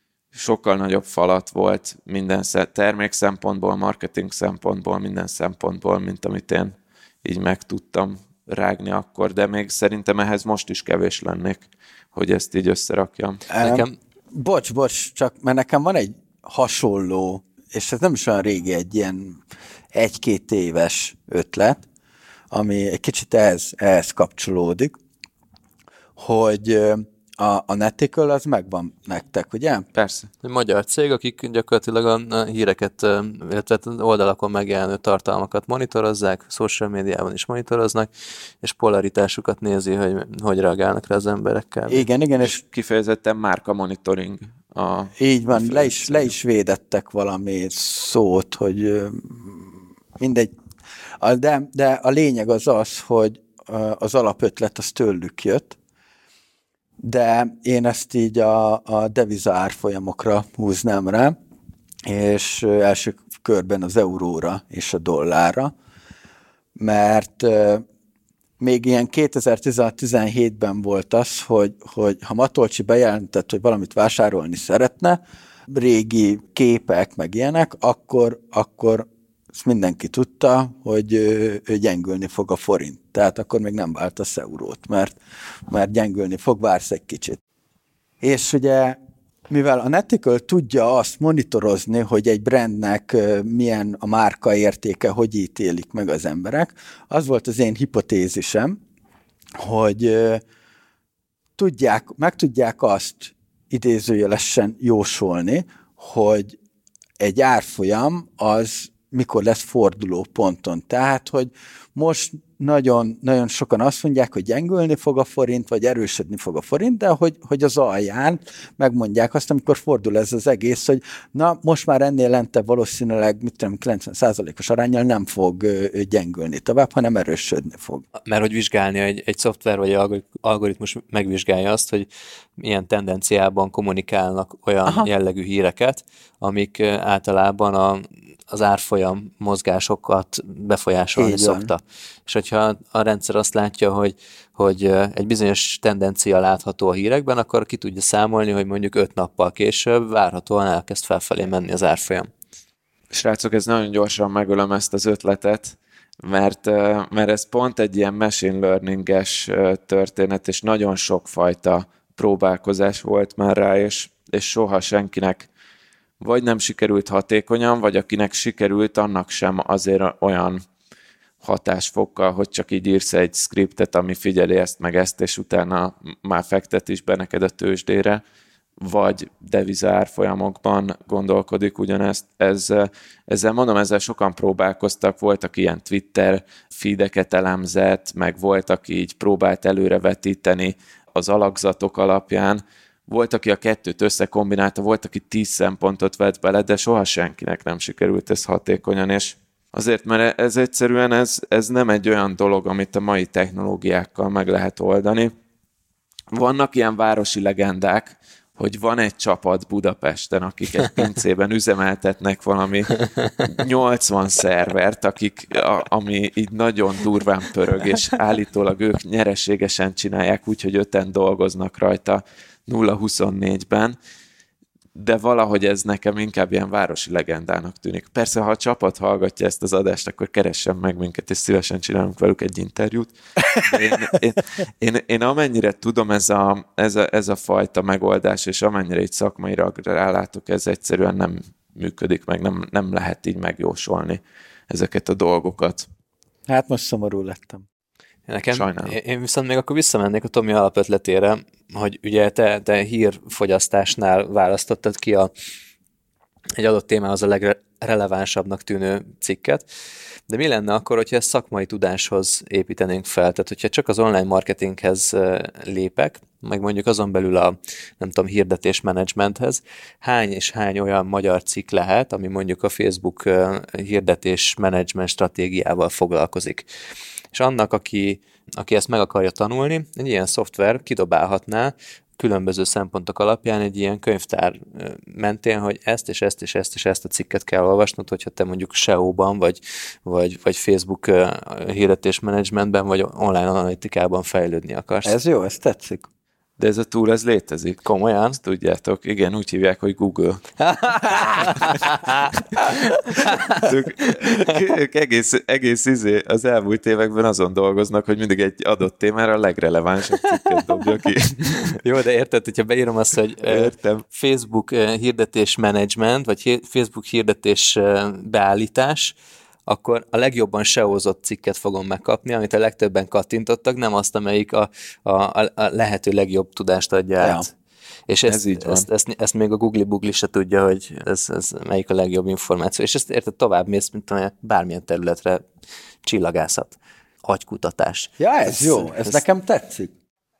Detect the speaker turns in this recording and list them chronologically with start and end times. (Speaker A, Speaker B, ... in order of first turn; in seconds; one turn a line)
Speaker A: 0.3-13.4
Speaker B: 13.5-19.4
Speaker C: 13.6-13.9
Speaker B: 19.9-21.8
Speaker B: 22.5-24.9
Speaker B: 26.2-29.9
Speaker A: 29.9-30.3
Speaker C: 30.4-42.0
Speaker B: 41.9-42.6
Speaker A: 42.4-46.3
Speaker B: 45.2-50.5
Speaker B: 51.2-55.8
Speaker B: 57.0-61.3
Speaker B: 62.0-65.7
Speaker B: 66.8-67.8
Speaker B: 68.6-85.2
Speaker B: 85.7-87.4
Speaker B: 88.2-89.0
Speaker B: 89.5-98.8
Speaker B: 99.6-100.4
Speaker B: 101.6-106.6
Speaker B: 107.2-128.0
Speaker C: 128.2-132.1
Speaker C: 132.6-152.3
Speaker B: 134.8-135.1
Speaker B: 141.2-141.7
Speaker A: 153.1-165.5
Speaker A: 166.2-170.6
Speaker A: 171.4-178.2
Speaker A: 178.8-205.3
Speaker A: 206.3-224.0
Speaker A: 224.9-245.9
Speaker B: 246.5-247.6
Speaker C: 248.3-255.3
Speaker A: 248.5-248.9
Speaker C: 256.6-259.6
Speaker C: 260.3-276.6
Speaker C: 277.3-295.1
Speaker B: 295.0-296.1
Speaker A: 296.6-297.8
Speaker C: 297.8-298.4
Speaker A: 298.4-300.4
Speaker C: 300.6-304.3
Speaker B: 301.1-301.5
Speaker A: 303.6-311.8
Speaker C: 311.6-319.1
Speaker A: 313.4-314.0
Speaker C: 319.7-327.5
Speaker B: 327.2-327.4
Speaker C: 328.1-335.4
Speaker A: 328.2-328.9
Speaker C: 336.0-339.2
Speaker B: 338.2-339.9